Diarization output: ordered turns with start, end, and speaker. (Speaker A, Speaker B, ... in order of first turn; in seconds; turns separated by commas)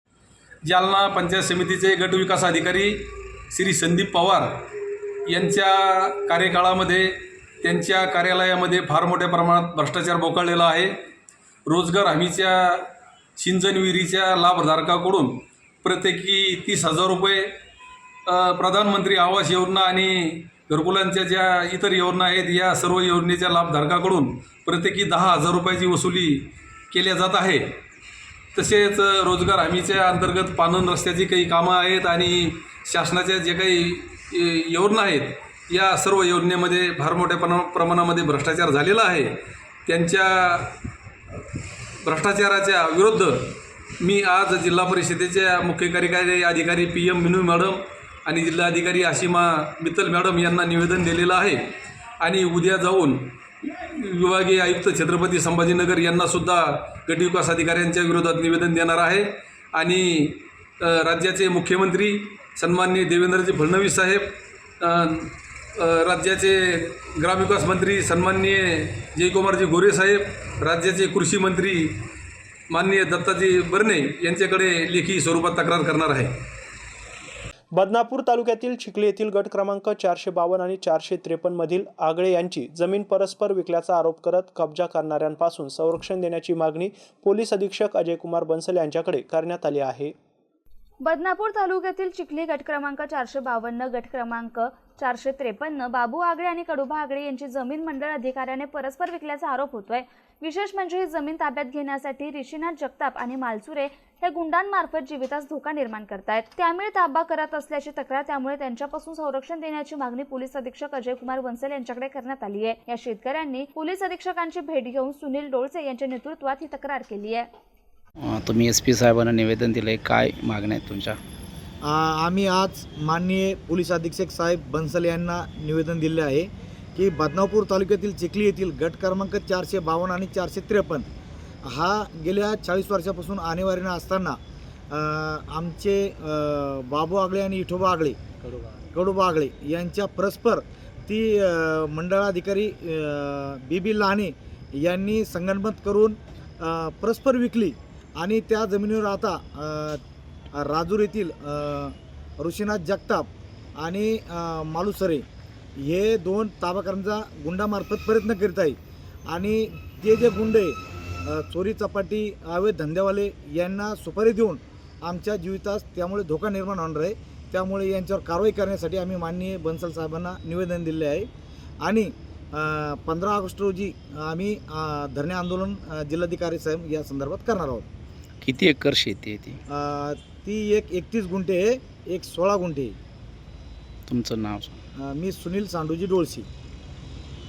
Speaker A: 0.7-4.7, Speaker A: 5.3-11.0, Speaker A: 11.7-17.6, Speaker A: 18.3-27.8, Speaker A: 28.5-40.8, Speaker A: 42.0-72.1, Speaker A: 72.7-76.5, Speaker B: 77.7-90.1, Speaker C: 91.0-117.5, Speaker D: 118.2-121.1, Speaker E: 121.9-126.5, Speaker E: 127.0-131.0, Speaker E: 131.8-134.3, Speaker E: 135.0-138.2, Speaker E: 138.9-144.3, Speaker E: 144.8-146.1, Speaker E: 146.7-149.9, Speaker E: 150.7-151.9, Speaker E: 152.4-153.3, Speaker E: 153.8-155.2, Speaker E: 155.9-158.7, Speaker E: 159.3-160.7, Speaker E: 161.3-171.2, Speaker E: 172.6-177.8, Speaker D: 178.4-179.6, Speaker E: 179.8-182.9, Speaker D: 184.1-184.7, Speaker E: 185.1-186.4